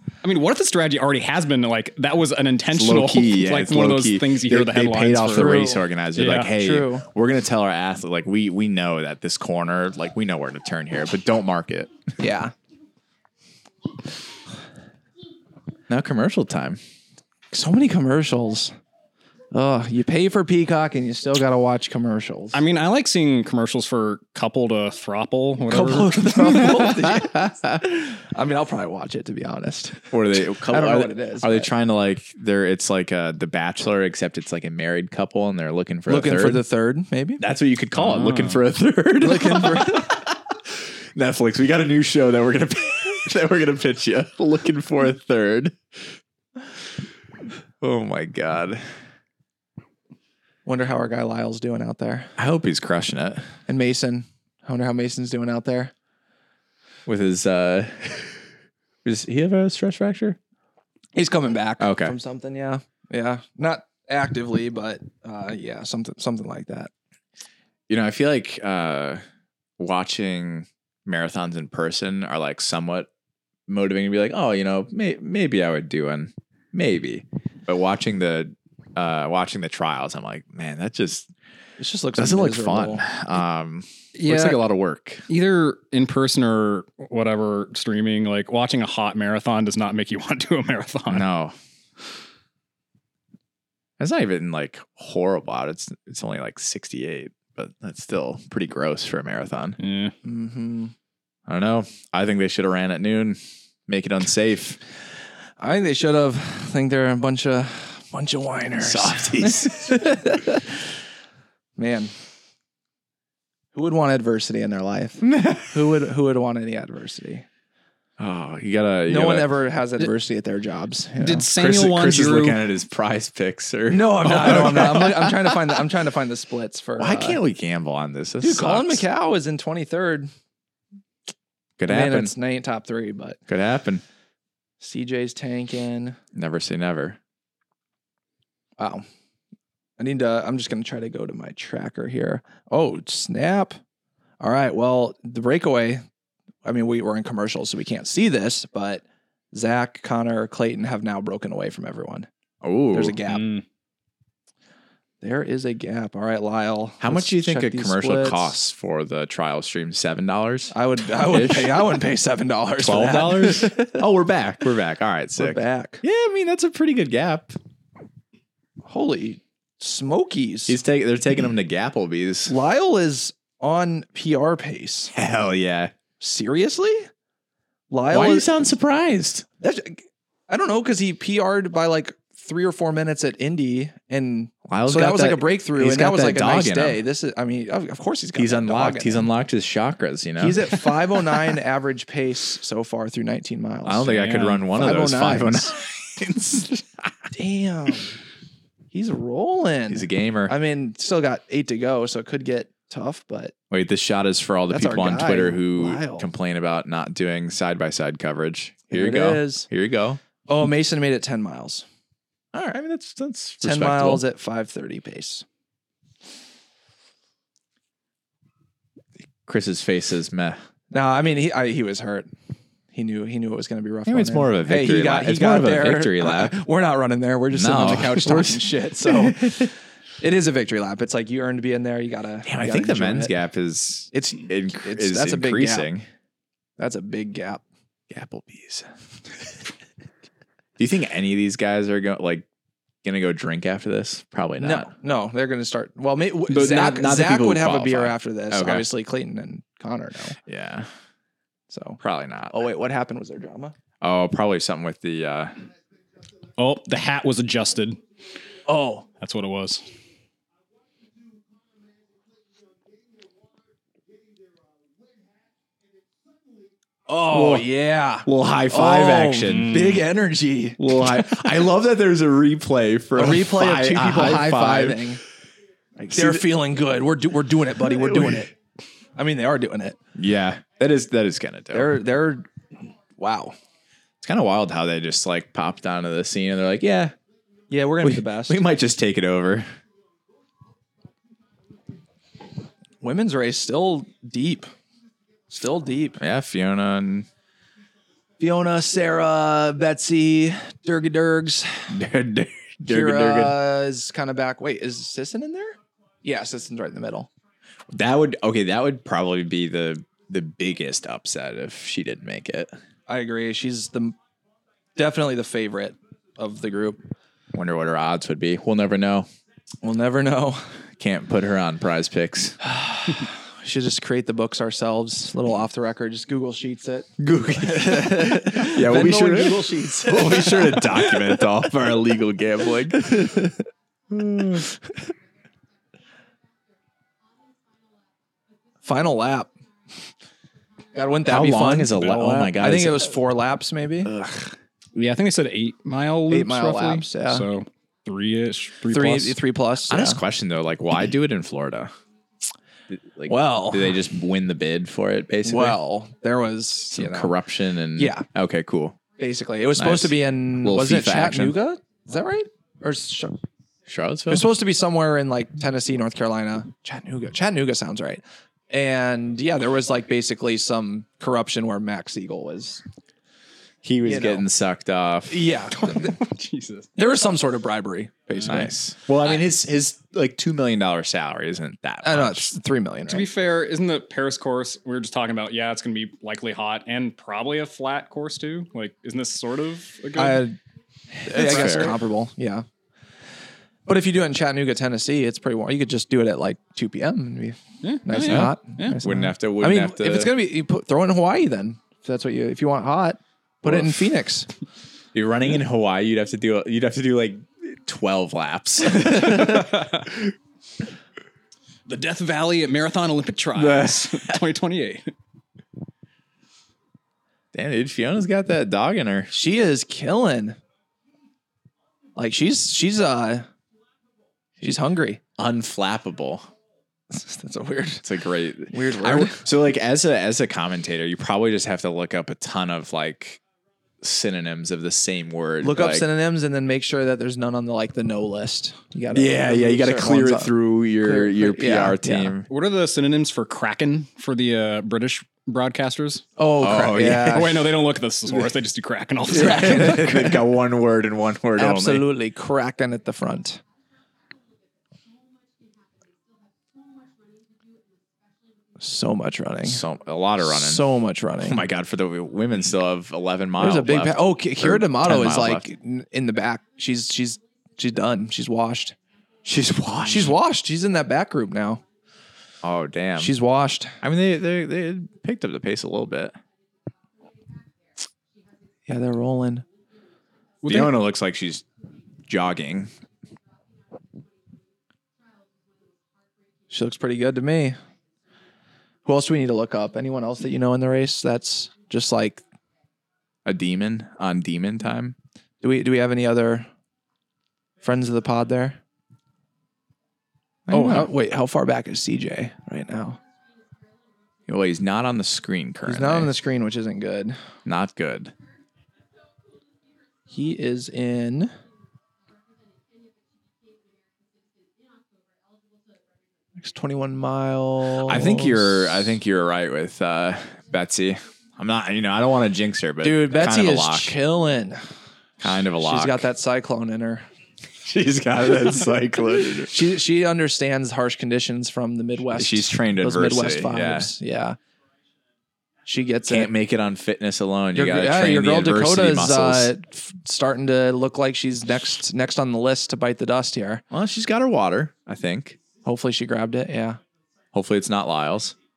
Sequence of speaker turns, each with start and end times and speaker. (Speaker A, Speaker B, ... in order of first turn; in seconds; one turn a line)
Speaker A: 0.2-6.5
Speaker B: 2.7-11.9
Speaker C: 5.3-5.8
Speaker C: 6.5-7.0
Speaker C: 12.2-12.5
Speaker B: 15.9-16.8
Speaker C: 17.5-18.7
Speaker C: 19.5-22.6
Speaker A: 22.5-26.4
Speaker C: 25.7-31.7
Speaker B: 26.4-27.8
Speaker B: 30.1-36.6
Speaker C: 36.1-37.4
Speaker B: 37.4-46.0
Speaker A: 38.0-38.6
Speaker C: 39.2-40.2
Speaker B: 47.8-48.8
Speaker C: 50.6-52.3
Speaker B: 52.4-53.5
Speaker C: 53.7-55.9
Speaker B: 57.0-58.4
Speaker B: 59.0-60.4
Speaker C: 61.1-66.9
Speaker B: 61.8-62.1
Speaker B: 67.9-69.2
Speaker B: 69.8-73.1
Speaker B: 73.7-81.3
Speaker C: 81.8-83.0
Speaker B: 82.2-85.2
Speaker A: 84.2-84.6
Speaker A: 85.3-91.2
Speaker B: 91.1-91.5
Speaker B: 94.0-99.8
Speaker A: 99.8-100.1
Speaker C: 100.2-100.9
Speaker B: 101.5-104.8
Speaker C: 105.6-110.7
Speaker B: 108.8-110.4
Speaker C: 111.8-112.1
Speaker C: 113.7-117.4
Speaker B: 115.2-115.8
Speaker B: 118.2-119.6
Speaker C: 119.1-121.4
Speaker A: 121.2-122.6
Speaker B: 121.5-125.8
Speaker C: 123.9-127.4
Speaker B: 127.0-129.1
Speaker C: 128.4-130.3
Speaker B: 131.8-132.3
Speaker C: 131.9-133.4
Speaker B: 133.5-134.0
Speaker C: 134.8-136.2
Speaker B: 136.3-137.2
Speaker C: 138.8-139.0
Speaker C: 140.0-143.8
Speaker C: 144.4-146.0
Speaker C: 146.6-152.3
Speaker B: 152.6-153.2
Speaker C: 152.9-153.5
Speaker A: 153.3-153.6
Speaker C: 155.2-158.5
Speaker B: 157.0-162.0
Speaker C: 160.7-164.0
Speaker B: 162.8-167.6
Speaker C: 165.4-166.0
Speaker C: 168.8-170.8
Speaker B: 170.7-172.5
Speaker C: 172.5-175.1
Speaker B: 175.1-175.9
Speaker C: 176.2-177.1
Speaker C: 177.9-178.5
Speaker B: 178.1-179.4
Speaker C: 179.6-189.3
Speaker B: 184.7-187.0
Speaker B: 188.3-190.7
Speaker C: 190.4-195.7
Speaker B: 193.8-197.3
Speaker A: 194.3-194.6
Speaker C: 197.3-198.2
Speaker C: 198.9-203.5
Speaker B: 199.9-200.5
Speaker B: 203.7-210.2
Speaker C: 204.7-206.3
Speaker C: 208.9-209.7
Speaker C: 210.5-211.8
Speaker B: 212.5-214.2
Speaker C: 213.6-215.4
Speaker B: 219.4-220.6
Speaker C: 220.9-222.3
Speaker C: 222.9-233.3
Speaker B: 224.1-226.6
Speaker B: 227.5-229.7
Speaker B: 232.4-236.1
Speaker C: 234.1-235.9
Speaker C: 236.8-237.6
Speaker B: 238.1-238.9
Speaker B: 240.8-242.4
Speaker B: 243.0-244.9
Speaker C: 244.6-250.4
Speaker B: 246.5-248.9
Speaker B: 250.4-250.9
Speaker C: 251.7-252.0
Speaker B: 252.0-252.6
Speaker C: 252.5-253.7
Speaker B: 254.0-255.5
Speaker A: 256.6-258.0
Speaker C: 258.6-259.1
Speaker A: 259.2-259.8
Speaker C: 267.1-271.5
Speaker B: 267.3-267.7
Speaker B: 268.2-270.0
Speaker A: 269.5-270.0
Speaker B: 270.8-275.1
Speaker C: 273.1-275.2
Speaker B: 276.0-276.5
Speaker C: 276.1-278.5
Speaker B: 277.8-278.5
Speaker C: 279.1-280.0
Speaker B: 280.1-282.0
Speaker C: 281.7-283.6
Speaker B: 284.2-287.1
Speaker C: 287.7-288.6
Speaker B: 288.0-289.7
Speaker C: 293.0-294.7
Speaker C: 295.5-296.2
Speaker B: 296.2-297.3
Speaker C: 298.4-301.9
Speaker B: 301.9-303.6
Speaker C: 302.9-307.3
Speaker B: 307.9-312.7
Speaker C: 313.1-314.1
Speaker C: 314.9-317.0
Speaker B: 317.5-319.3
Speaker C: 319.8-320.7
Speaker B: 321.0-322.6
Speaker C: 322.6-331.5
Speaker B: 327.2-333.4
Speaker C: 333.0-333.5
Speaker B: 334.1-334.7
Speaker C: 338.8-339.5
Speaker C: 340.9-344.1
Speaker B: 341.2-343.1
Speaker B: 344.0-344.5
Speaker A: 344.9-349.4
Speaker C: 346.3-347.4
Speaker C: 348.9-350.2
Speaker B: 349.9-351.9
Speaker B: 352.9-355.8
Speaker C: 353.3-354.0
Speaker C: 355.4-357.4
Speaker B: 356.9-359.0
Speaker C: 357.9-358.2
Speaker C: 359.2-363.4
Speaker B: 359.7-361.6
Speaker B: 363.9-364.5
Speaker C: 364.3-372.8
Speaker B: 373.8-375.5
Speaker C: 374.0-374.4
Speaker C: 375.3-376.2
Speaker A: 375.8-376.9
Speaker C: 377.0-378.7
Speaker B: 378.4-382.5
Speaker C: 382.0-383.3
Speaker A: 383.1-390.4
Speaker C: 390.1-390.6
Speaker C: 391.1-392.6
Speaker B: 391.3-392.0
Speaker A: 391.3-391.9
Speaker C: 393.9-404.5
Speaker A: 397.8-399.0
Speaker B: 398.2-400.4
Speaker B: 403.6-404.1
Speaker B: 405.1-410.2
Speaker A: 411.9-415.1
Speaker B: 413.5-414.4
Speaker B: 417.5-419.3
Speaker C: 419.3-420.6
Speaker C: 422.1-423.5
Speaker C: 424.6-425.2
Speaker B: 425.4-426.5
Speaker C: 427.1-428.1
Speaker B: 428.0-433.4
Speaker C: 428.7-429.4
Speaker B: 434.0-436.1
Speaker C: 435.6-442.4
Speaker B: 439.1-442.5
Speaker A: 442.5-446.2
Speaker C: 446.4-447.6
Speaker B: 446.6-447.5
Speaker A: 447.1-450.0
Speaker C: 449.3-450.4
Speaker B: 449.3-452.1
Speaker C: 451.6-453.6
Speaker C: 458.8-459.8
Speaker B: 459.6-460.9
Speaker C: 460.4-461.6
Speaker B: 461.4-465.7
Speaker C: 463.6-468.9
Speaker B: 469.4-470.4
Speaker C: 470.0-471.8
Speaker B: 472.6-473.3
Speaker C: 473.2-474.0
Speaker B: 474.0-476.4
Speaker C: 478.9-479.6
Speaker A: 480.6-480.9
Speaker B: 480.6-481.6
Speaker B: 482.2-482.9
Speaker C: 486.7-487.8
Speaker C: 489.1-492.4
Speaker B: 493.4-495.1
Speaker C: 495.6-496.7
Speaker C: 497.8-498.8
Speaker B: 500.7-501.1
Speaker C: 500.7-503.2
Speaker B: 504.5-506.3
Speaker C: 505.8-507.4
Speaker B: 507.6-508.3
Speaker C: 510.3-511.5
Speaker C: 516.6-518.9
Speaker B: 518.0-524.1
Speaker C: 523.0-524.8
Speaker B: 525.4-526.3
Speaker C: 525.8-527.2
Speaker B: 527.8-529.8
Speaker C: 529.7-534.6
Speaker B: 532.3-534.1
Speaker C: 535.9-536.5
Speaker B: 536.3-539.7
Speaker C: 537.7-543.8
Speaker B: 543.9-545.6
Speaker C: 545.8-547.0
Speaker B: 547.5-548.5